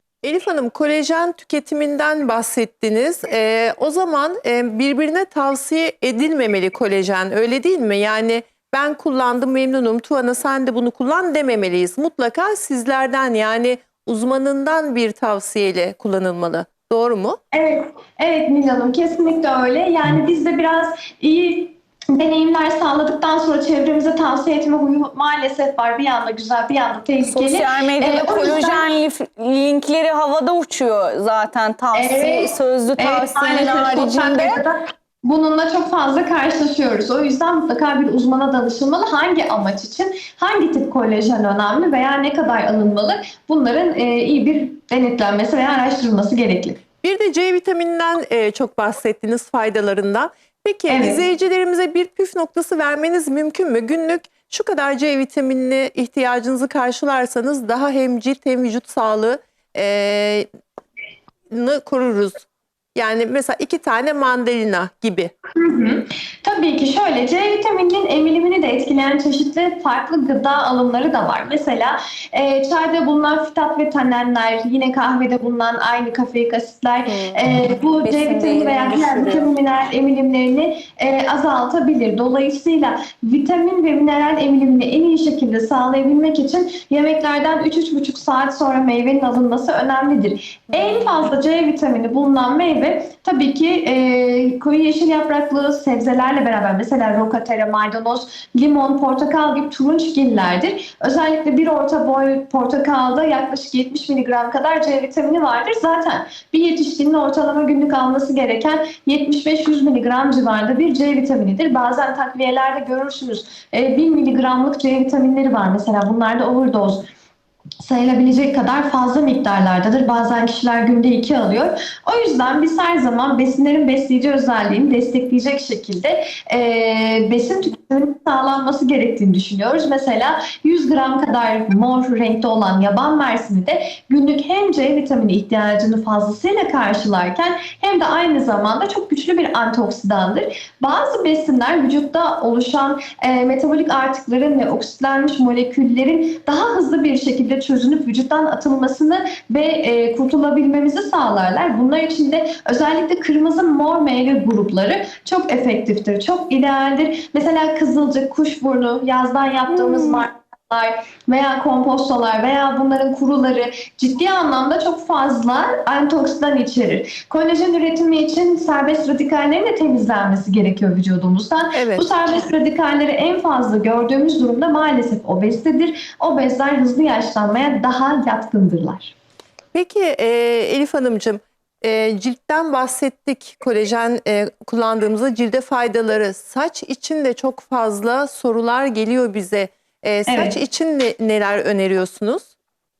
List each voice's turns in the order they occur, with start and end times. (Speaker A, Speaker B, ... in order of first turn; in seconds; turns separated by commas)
Speaker A: 0.2-17.4, Speaker B: 17.5-28.9, Speaker C: 27.2-34.6, Speaker B: 31.9-46.8, Speaker A: 47.0-60.5, Speaker B: 50.9-51.2, Speaker A: 61.5-65.3, Speaker B: 65.5-117.1, Speaker C: 78.0-79.5, Speaker B: 117.8-179.1, Speaker A: 171.7-172.0, Speaker A: 179.7-192.5, Speaker B: 190.2-190.6